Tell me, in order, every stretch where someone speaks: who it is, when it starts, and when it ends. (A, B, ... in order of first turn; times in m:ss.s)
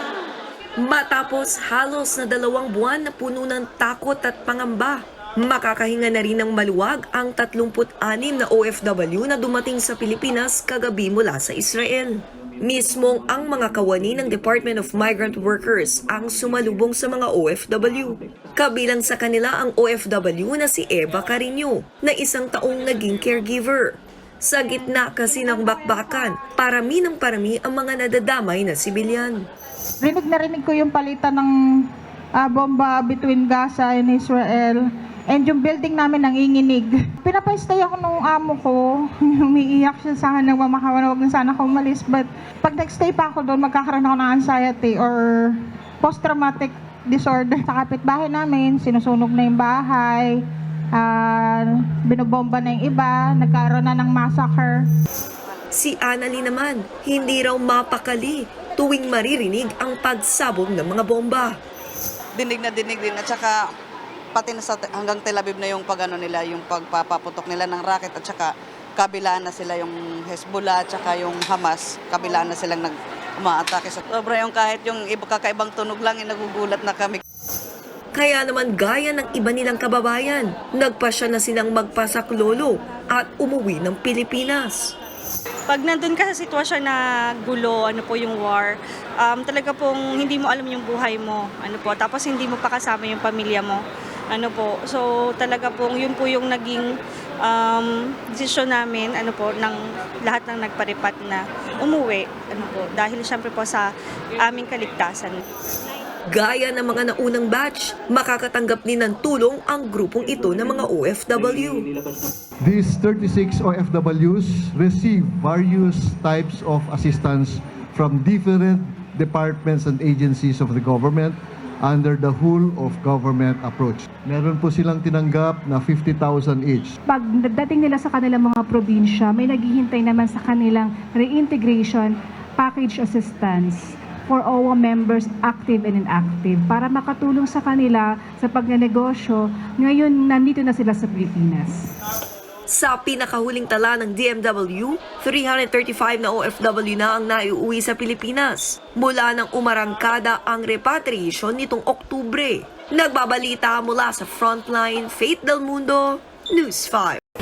0:00.8-0:29.4 A
0:30.0-0:31.5 B
0:32.4-0:50.4 B
0:51.0-0:54.8 B
0:55.7-1:01.5 A
1:02.4-1:03.6 C
1:04.3-1:17.2 C
1:18.1-1:24.9 A
1:25.7-1:33.8 D
1:34.3-1:36.9 D
1:37.4-1:43.8 D
1:44.4-1:45.4 D
1:46.3-1:51.9 A
1:52.6-2:06.9 E
2:07.1-2:21.8 F
2:22.7-2:37.2 A